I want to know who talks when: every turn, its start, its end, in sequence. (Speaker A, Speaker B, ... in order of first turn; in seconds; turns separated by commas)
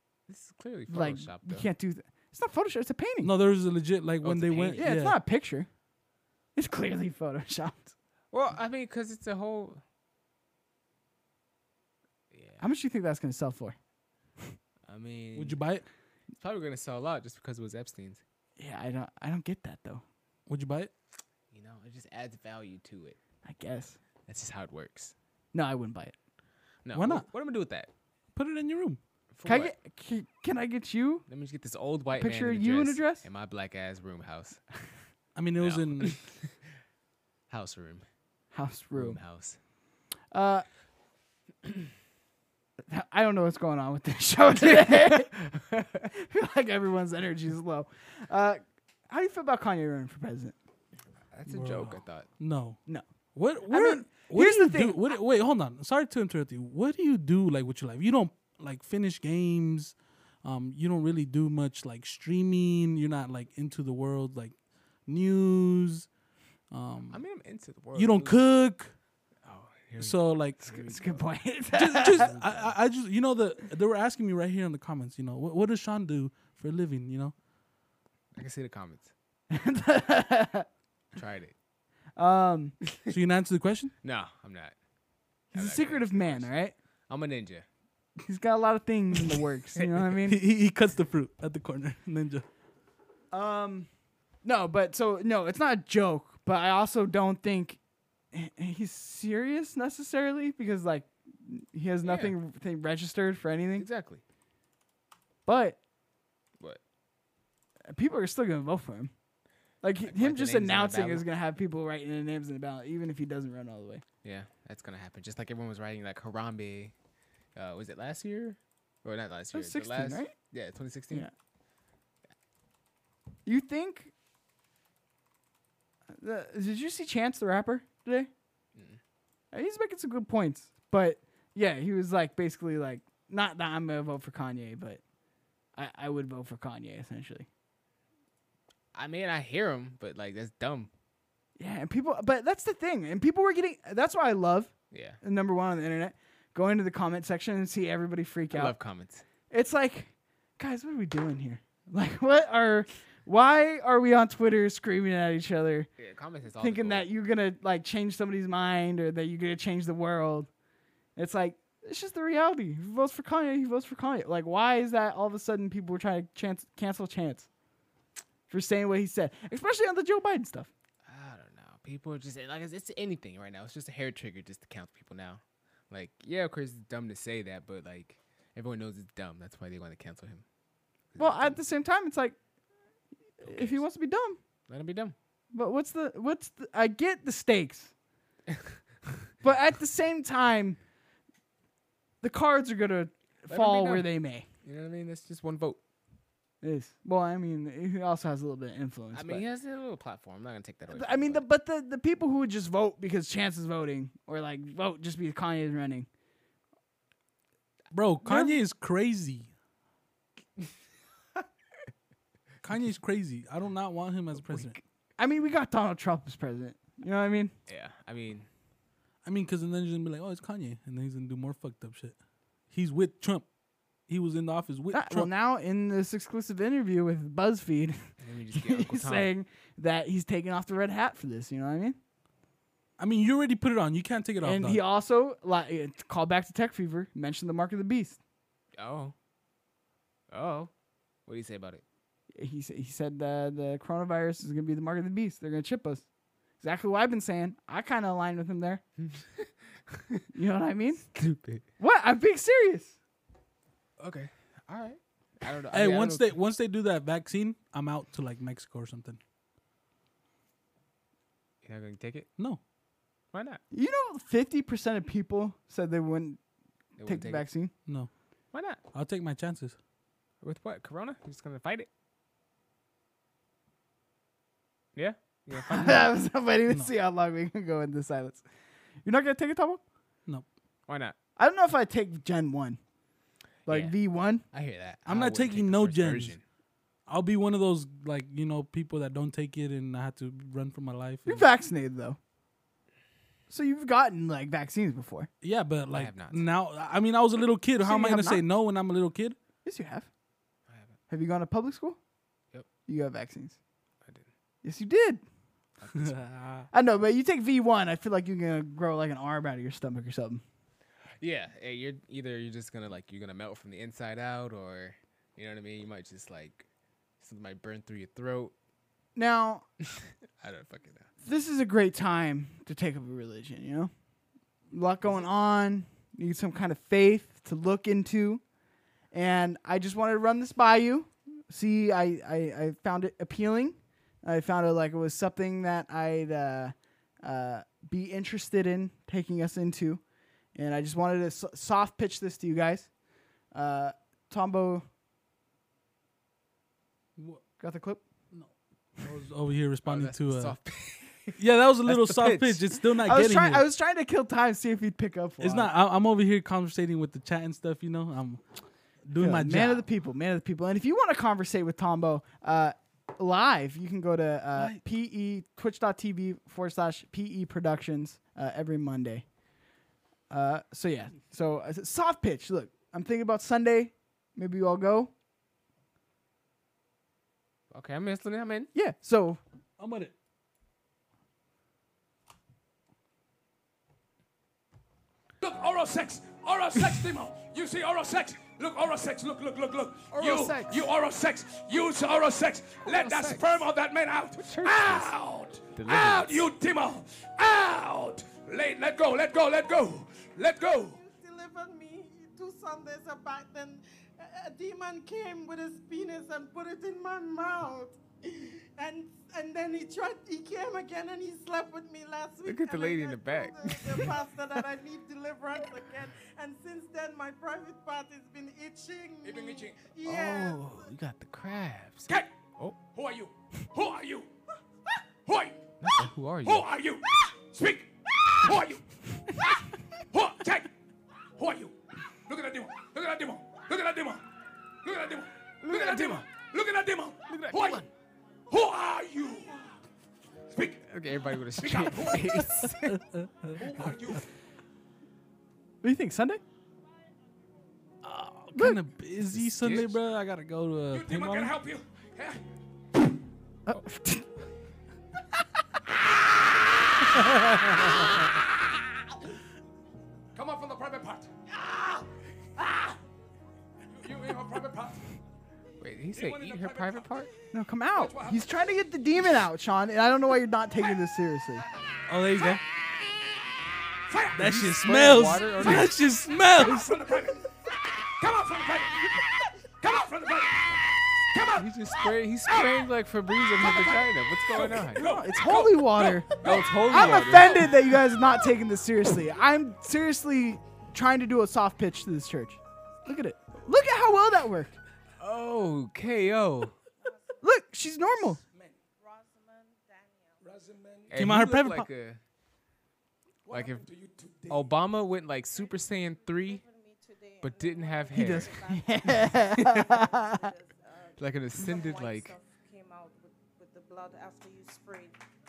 Speaker A: 0.3-1.7, Speaker B: 0.9-3.3, Speaker C: 3.2-5.2, Speaker A: 4.2-4.8, Speaker B: 4.8-5.7, Speaker B: 6.5-7.9, Speaker A: 8.3-9.8, Speaker A: 12.3-12.6, Speaker B: 12.6-13.8, Speaker A: 14.9-15.6, Speaker C: 15.3-15.8, Speaker A: 16.4-18.2, Speaker B: 18.6-20.0, Speaker C: 20.5-20.9, Speaker A: 21.5-23.2, Speaker B: 23.4-24.0, Speaker A: 24.3-25.1, Speaker B: 25.5-26.1, Speaker A: 26.9-27.9, Speaker C: 26.9-27.3, Speaker C: 28.4-29.0, Speaker A: 29.3-29.7, Speaker B: 29.4-31.2, Speaker A: 31.3-34.6, Speaker B: 32.2-33.3, Speaker C: 35.4-36.2, Speaker A: 35.6-36.7, Speaker A: 37.5-38.1, Speaker B: 38.5-39.2, Speaker A: 38.9-39.6, Speaker B: 40.3-40.7, Speaker B: 42.9-45.3, Speaker A: 44.6-46.1, Speaker B: 46.1-50.5, Speaker A: 51.3-52.3, Speaker C: 51.5-52.8, Speaker C: 53.4-64.5, Speaker B: 53.7-55.0, Speaker C: 65.1-66.1, Speaker C: 66.7-67.2, Speaker A: 67.1-68.4, Speaker C: 67.9-68.9, Speaker A: 69.4-71.3, Speaker C: 70.0-70.8, Speaker B: 70.6-72.3, Speaker C: 71.7-77.3, Speaker A: 72.0-72.8, Speaker A: 78.3-79.1, Speaker B: 79.5-80.7, Speaker A: 81.2-81.5, Speaker B: 82.2-82.8, Speaker C: 83.1-83.9, Speaker A: 84.0-84.8, Speaker A: 85.5-86.5, Speaker B: 85.5-86.8, Speaker A: 87.1-87.7, Speaker B: 88.2-90.4, Speaker C: 90.2-92.5, Speaker B: 93.3-93.9, Speaker B: 94.4-97.8, Speaker B: 98.3-103.9, Speaker A: 102.0-102.3, Speaker A: 103.8-104.2, Speaker B: 105.5-105.8, Speaker B: 107.9-109.1, Speaker B: 109.8-114.0, Speaker A: 110.0-111.3, Speaker A: 114.2-116.9, Speaker A: 117.5-121.3, Speaker B: 119.5-120.3, Speaker B: 123.5-124.1, Speaker B: 126.2-128.3, Speaker A: 128.8-129.0, Speaker B: 129.5-135.0, Speaker B: 135.8-137.5, Speaker A: 138.9-140.9, Speaker B: 141.6-148.8, Speaker A: 144.9-145.2, Speaker A: 148.5-149.3, Speaker B: 149.5-155.9, Speaker A: 156.0-157.1, Speaker B: 156.6-160.5, Speaker B: 161.2-167.5, Speaker B: 168.5-170.7, Speaker A: 171.1-180.4, Speaker A: 181.1-181.6, Speaker B: 181.2-182.4, Speaker B: 183.4-184.4, Speaker A: 183.4-183.8, Speaker A: 184.7-185.2, Speaker B: 185.5-187.9, Speaker A: 188.5-188.8, Speaker B: 189.4-190.8, Speaker B: 192.2-194.5, Speaker A: 193.5-194.1, Speaker A: 194.6-195.8, Speaker B: 196.6-199.4, Speaker A: 199.1-201.4, Speaker B: 200.9-206.1, Speaker C: 207.9-209.5, Speaker B: 208.2-208.6, Speaker C: 212.6-214.8, Speaker B: 214.4-217.5, Speaker A: 217.7-218.5, Speaker C: 219.2-222.2, Speaker C: 222.7-223.5, Speaker C: 224.1-225.3, Speaker B: 224.9-228.0, Speaker A: 228.2-229.3, Speaker B: 228.5-232.0, Speaker C: 233.0-234.8, Speaker B: 234.4-238.2, Speaker A: 238.8-239.2, Speaker A: 240.3-240.7, Speaker A: 241.3-241.8, Speaker B: 242.3-246.1, Speaker B: 246.6-248.8, Speaker A: 249.0-250.2, Speaker B: 250.3-251.1, Speaker A: 251.1-251.7, Speaker B: 251.8-253.0, Speaker A: 254.0-256.3, Speaker C: 255.7-259.2, Speaker A: 261.6-262.3, Speaker A: 263.3-263.6, Speaker B: 263.7-266.4, Speaker A: 267.0-267.5, Speaker B: 267.0-267.7, Speaker A: 268.5-268.8, Speaker C: 268.9-269.8, Speaker A: 270.4-271.9, Speaker A: 274.9-276.1, Speaker B: 275.6-278.4, Speaker B: 279.1-279.8, Speaker A: 280.9-281.2, Speaker B: 281.4-282.8, Speaker B: 283.7-284.4, Speaker A: 283.7-286.4, Speaker C: 285.1-286.4, Speaker C: 287.1-291.5, Speaker B: 291.3-292.2, Speaker B: 293.5-295.3, Speaker C: 295.4-299.4, Speaker A: 295.9-296.5, Speaker B: 297.8-298.4, Speaker B: 299.6-300.1, Speaker A: 300.7-301.0, Speaker B: 301.1-302.0, Speaker B: 302.9-303.6, Speaker B: 304.6-305.2, Speaker A: 305.8-306.7, Speaker B: 306.7-310.4, Speaker A: 311.2-316.7, Speaker A: 317.2-318.5, Speaker B: 319.2-319.6, Speaker A: 319.9-321.1, Speaker B: 321.2-323.9, Speaker B: 324.7-328.4, Speaker B: 329.1-340.0, Speaker B: 340.6-342.9, Speaker B: 343.5-344.9, Speaker C: 347.2-347.4, Speaker B: 347.6-348.0, Speaker C: 348.3-350.6, Speaker A: 349.8-352.7, Speaker C: 351.4-353.7, Speaker B: 353.0-355.7, Speaker C: 355.4-358.4, Speaker C: 359.1-359.8, Speaker B: 359.2-369.3, Speaker B: 370.3-375.1, Speaker A: 377.7-378.7, Speaker B: 378.7-379.4, Speaker C: 379.8-380.1, Speaker D: 385.4-401.0, Speaker A: 390.1-390.9, Speaker A: 392.8-393.7, Speaker A: 394.4-395.1, Speaker A: 395.7-396.5, Speaker E: 400.7-420.9, Speaker A: 412.4-414.2, Speaker D: 419.2-419.9, Speaker A: 420.0-422.8, Speaker D: 422.1-424.3, Speaker D: 425.3-425.7, Speaker A: 425.8-426.7, Speaker D: 426.4-430.7, Speaker D: 431.4-434.2, Speaker D: 434.8-437.9, Speaker A: 435.7-436.2, Speaker A: 437.3-437.9, Speaker D: 438.5-439.7, Speaker D: 440.5-440.9, Speaker A: 440.9-443.0, Speaker D: 441.6-442.5, Speaker D: 443.6-444.3, Speaker B: 445.8-446.4, Speaker C: 448.0-451.5, Speaker A: 449.3-450.0, Speaker D: 450.9-452.4, Speaker B: 453.7-454.3, Speaker D: 460.4-462.1, Speaker D: 463.9-465.1, Speaker A: 465.8-467.3, Speaker D: 466.1-467.3, Speaker B: 467.5-471.6, Speaker D: 467.9-468.5, Speaker C: 472.1-472.6, Speaker D: 474.1-474.5, Speaker C: 474.4-477.0, Speaker A: 474.4-475.9, Speaker D: 476.6-482.8, Speaker A: 481.6-485.1, Speaker D: 483.6-488.4, Speaker B: 485.0-494.8, Speaker A: 486.4-487.7, Speaker A: 495.2-496.7, Speaker E: 497.0-498.3, Speaker B: 497.4-498.4, Speaker E: 499.0-500.5, Speaker D: 500.4-501.4, Speaker A: 501.1-502.2, Speaker C: 501.2-501.9, Speaker D: 503.5-504.7, Speaker A: 503.5-503.9, Speaker A: 504.5-506.6, Speaker E: 505.5-515.2, Speaker A: 507.4-508.6, Speaker B: 508.1-510.4, Speaker A: 509.5-509.9, Speaker A: 511.2-512.4